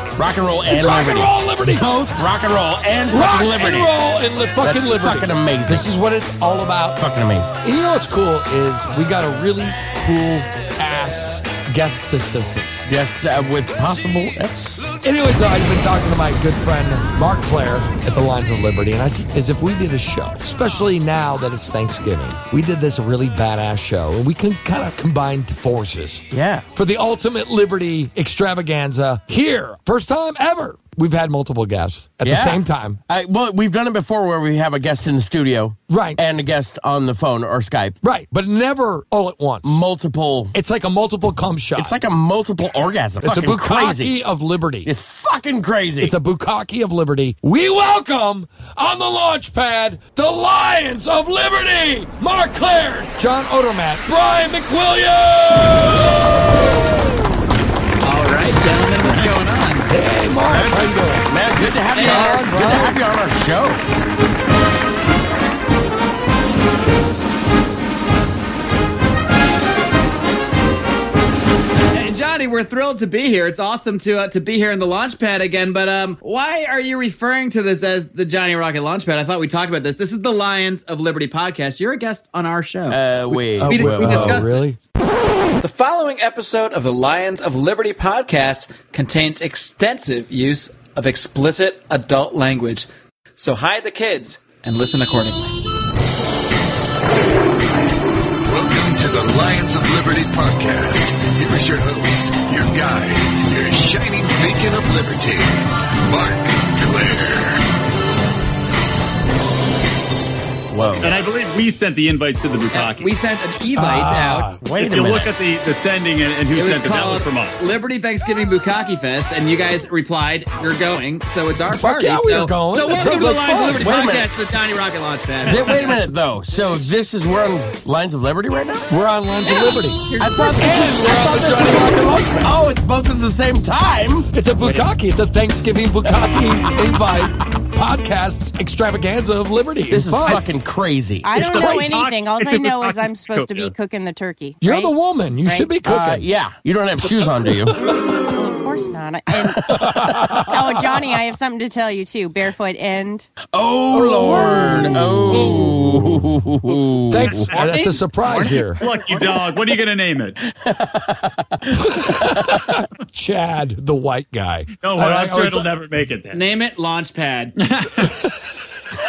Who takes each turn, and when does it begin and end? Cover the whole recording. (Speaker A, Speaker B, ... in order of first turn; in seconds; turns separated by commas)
Speaker A: 0.2-3.9, Speaker B: 0.7-2.1, Speaker B: 3.1-7.0, Speaker A: 4.6-5.9, Speaker A: 7.0-7.5, Speaker B: 7.6-12.9, Speaker A: 12.8-14.8, Speaker B: 15.0-33.0, Speaker A: 26.3-26.6, Speaker A: 32.2-38.0, Speaker B: 35.9-36.2, Speaker B: 38.0-39.8, Speaker A: 39.6-40.5, Speaker B: 40.5-42.0, Speaker A: 41.7-44.1, Speaker B: 43.2-44.9, Speaker A: 44.8-46.1, Speaker B: 46.0-56.8, Speaker C: 58.0-59.9, Speaker B: 59.9-61.3, Speaker A: 60.5-63.8, Speaker B: 61.9-63.0, Speaker C: 61.9-62.5, Speaker C: 71.9-84.8, Speaker A: 82.9-84.5, Speaker B: 83.6-84.8, Speaker C: 85.6-95.6, Speaker D: 98.4-107.6, Speaker A: 110.7-111.1, Speaker E: 111.0-113.1, Speaker C: 112.7-114.5, Speaker B: 113.8-114.6, Speaker A: 114.6-115.3, Speaker E: 114.7-117.6, Speaker C: 116.5-126.0, Speaker B: 121.7-123.9, Speaker A: 123.8-124.3, Speaker A: 125.5-128.9, Speaker B: 128.9-132.6, Speaker C: 129.4-130.6, Speaker A: 130.1-134.9, Speaker B: 134.3-140.4, Speaker A: 139.9-141.6, Speaker F: 141.2-144.9, Speaker E: 141.3-143.7, Speaker B: 144.6-146.2, Speaker F: 145.4-145.8, Speaker A: 145.8-148.0, Speaker F: 147.9-153.3, Speaker A: 149.5-149.8, Speaker B: 149.7-151.0, Speaker A: 153.5-157.5, Speaker B: 153.9-155.8, Speaker B: 157.1-158.8, Speaker E: 157.2-157.5, Speaker C: 157.4-159.4, Speaker E: 158.8-160.3, Speaker A: 160.5-162.6, Speaker B: 161.7-165.7, Speaker E: 164.8-166.4, Speaker C: 166.3-167.5, Speaker E: 167.6-168.1